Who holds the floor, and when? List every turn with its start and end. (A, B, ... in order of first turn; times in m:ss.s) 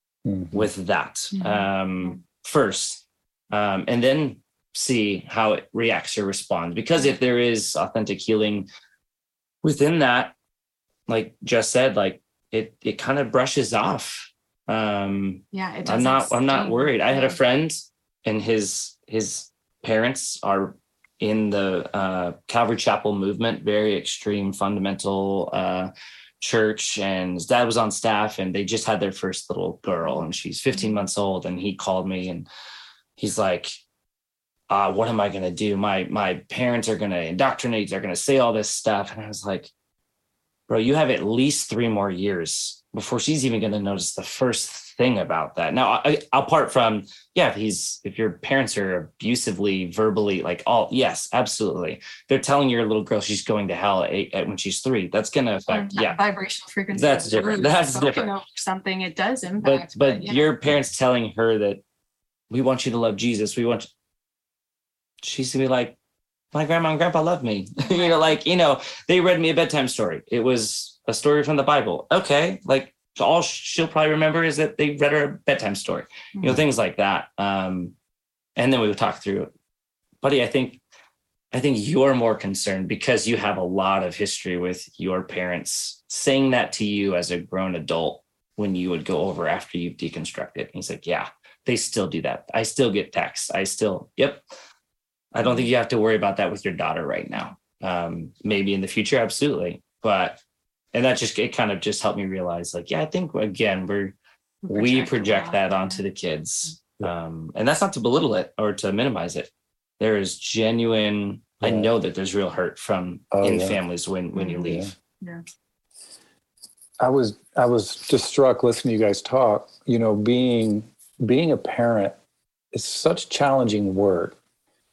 0:00.2-0:00.7 A
0:00.5-0:08.7 B
0:01.3-0:02.2 C
0:09.6-0:10.3 B
0:11.1-0:32.5 B
0:15.5-0:17.4 C
0:33.2-0:33.8 B
0:34.7-0:39.7 B
0:40.7-0:56.2 B
0:55.7-1:00.8 C
0:56.9-0:58.3 B
0:59.6-1:01.8 B
1:02.5-1:03.9 B
1:05.2-1:06.0 B
1:06.5-1:17.9 B
1:07.8-1:08.3 C
1:18.6-1:19.5 B
1:20.2-1:20.8 B
1:21.5-1:34.4 B
1:35.3-1:40.4 B
1:40.9-1:44.2 B
1:44.6-1:46.0 C
1:44.7-1:54.9 B
1:51.6-1:51.9 A
1:53.3-1:53.8 A
1:54.4-1:55.4 C
1:54.6-1:54.9 A
1:57.0-2:02.2 A
2:02.7-2:04.4 A